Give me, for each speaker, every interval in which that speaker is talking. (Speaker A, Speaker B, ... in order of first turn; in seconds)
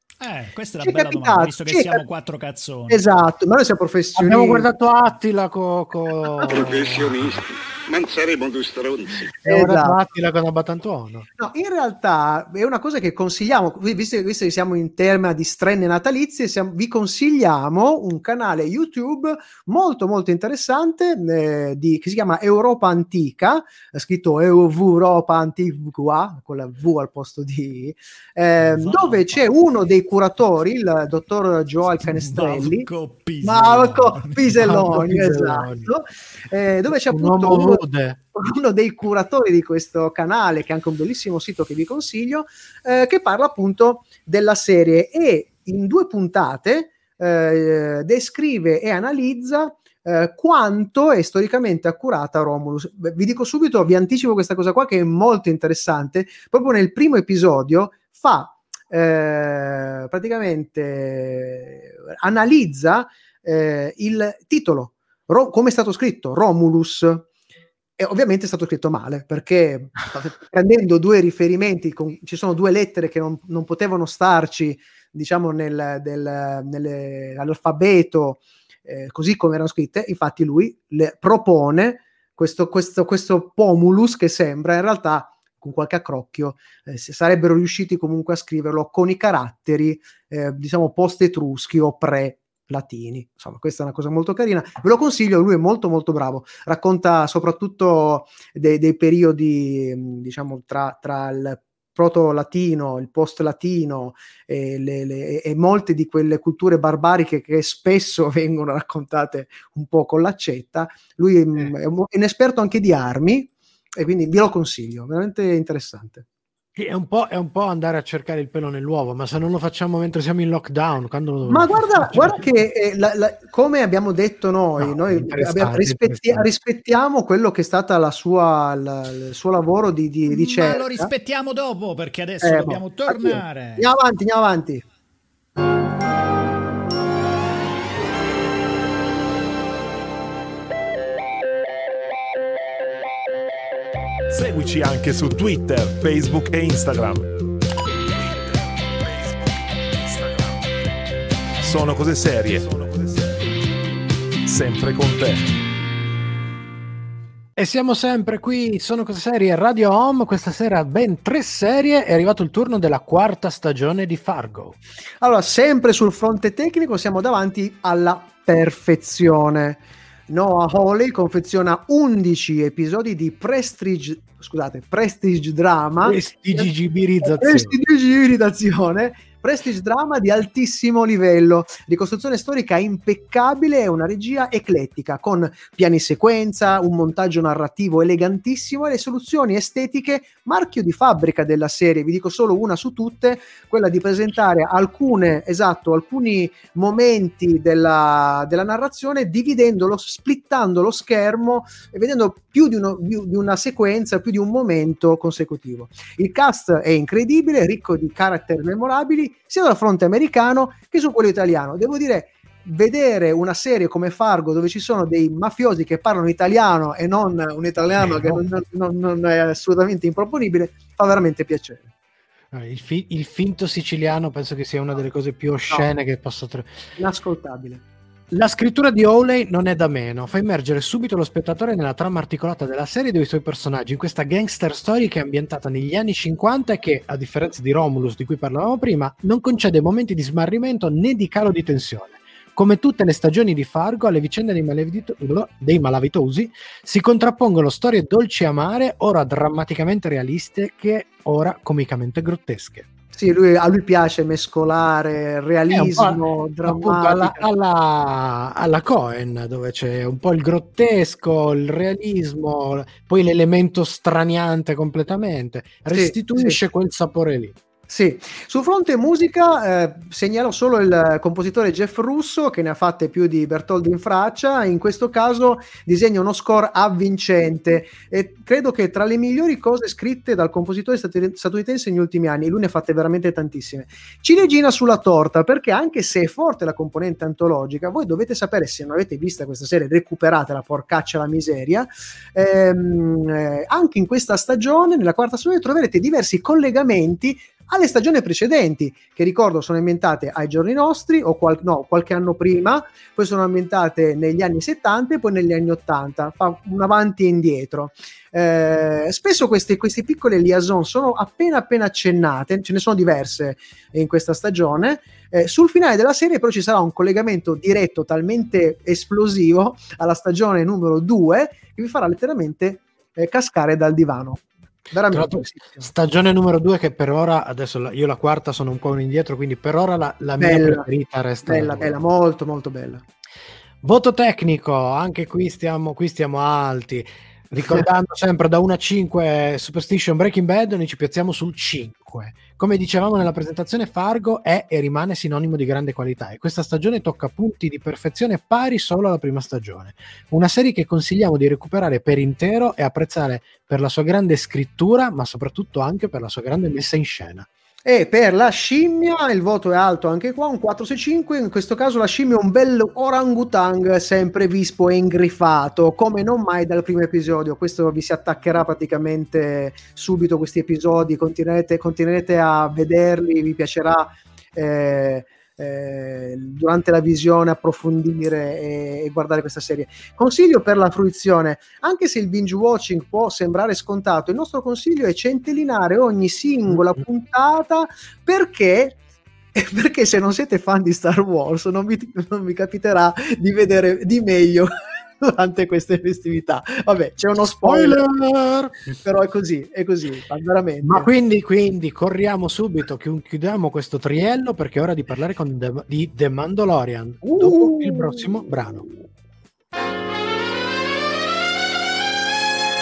Speaker A: 0.2-3.0, 28.8-29.4, 32.0-34.7, 130.3-133.9
Speaker B: 0.8-2.0, 2.9-4.7, 9.4-10.0, 11.4-32.9, 33.4-67.3, 68.0-116.2, 121.5-131.1, 132.4-134.8, 165.2-176.7, 177.2-221.9, 227.0-227.8, 253.1-257.5, 265.9-266.6, 267.9-325.9, 330.4-330.9, 331.5-333.0, 357.9-389.0, 389.6-398.0, 399.0-401.1, 407.2-408.3
Speaker C: 4.2-7.4, 9.4-11.3, 34.6-35.9, 37.1-38.2, 116.8-122.4, 124.8-126.5, 157.6-164.8, 176.0-177.8, 218.0-218.3, 222.5-226.7, 228.3-252.9, 255.7-267.6, 325.1-332.0, 333.8-357.5, 397.6-398.8, 400.8-408.9
Speaker D: 6.5-9.3
Speaker E: 144.3-147.3, 148.2-150.7, 151.6-153.5, 154.5-155.5